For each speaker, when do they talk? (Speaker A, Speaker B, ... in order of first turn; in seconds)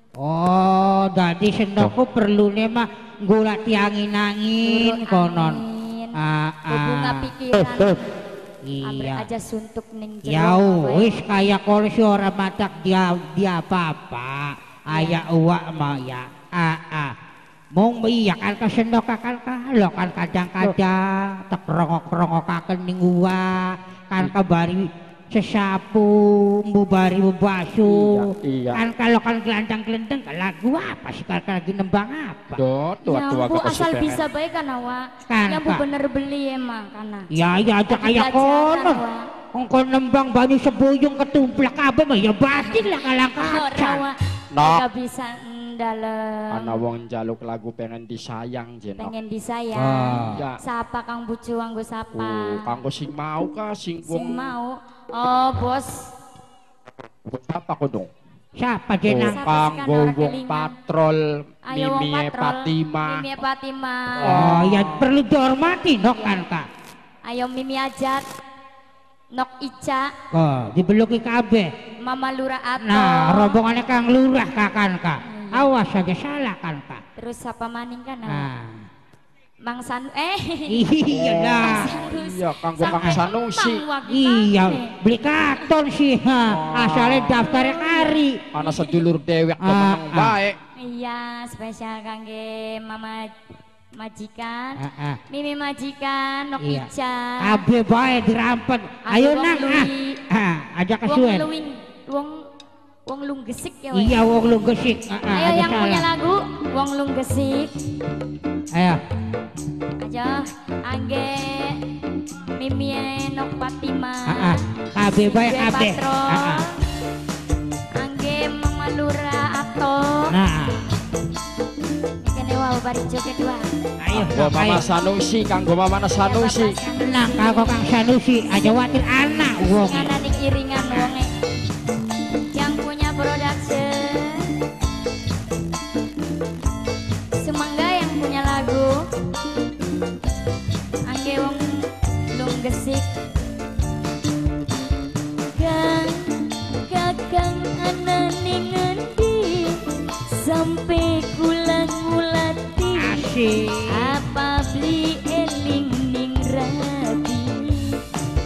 Speaker A: 0.2-5.6, 6.2-7.3, 8.7-9.2, 10.2-17.1, 17.7-32.6, 35.3-35.8, 37.3-39.0, 39.5-44.0, 49.7-50.4, 58.6-59.4, 64.2-66.7, 70.3-71.7, 72.8-77.0, 78.3-78.8, 80.7-81.9, 82.8-83.2, 84.1-88.4, 89.6-90.3, 94.8-95.2, 96.6-96.9, 97.4-101.5, 103.9-106.1, 108.7-109.0, 114.3-116.6, 120.3-120.9, 124.0-124.8, 127.0-130.1, 153.0-154.1
Speaker B: 4.6-6.2, 6.7-8.0, 8.8-11.2, 14.9-15.2, 33.1-37.3, 37.9-39.3, 42.6-46.8, 49.0-52.7, 54.0-55.9, 59.2-60.7, 61.6-64.6, 66.0-66.4, 67.2-68.2, 69.3-70.1, 72.0-73.6, 75.2-75.7, 77.2-78.5, 79.6-80.8, 81.6-84.9, 88.6-89.0, 90.8-93.3, 94.0-97.6, 99.1-100.2, 101.1-102.4, 103.1-104.2, 105.3-107.7, 110.0-111.8, 112.5-116.7, 117.9-120.3, 122.2-123.7, 126.2-127.8, 129.8-131.3, 132.5-134.5, 137.4-139.1, 141.1-143.1, 145.5-153.2, 153.9-158.0
Speaker C: 27.9-28.8, 32.5-34.2, 44.5-44.8, 46.5-49.1, 50.3-50.6, 52.1-54.5, 57.2-58.1, 59.0-63.2, 64.2-65.0, 81.3-83.8, 86.5-87.4, 88.5-90.6, 124.1-126.8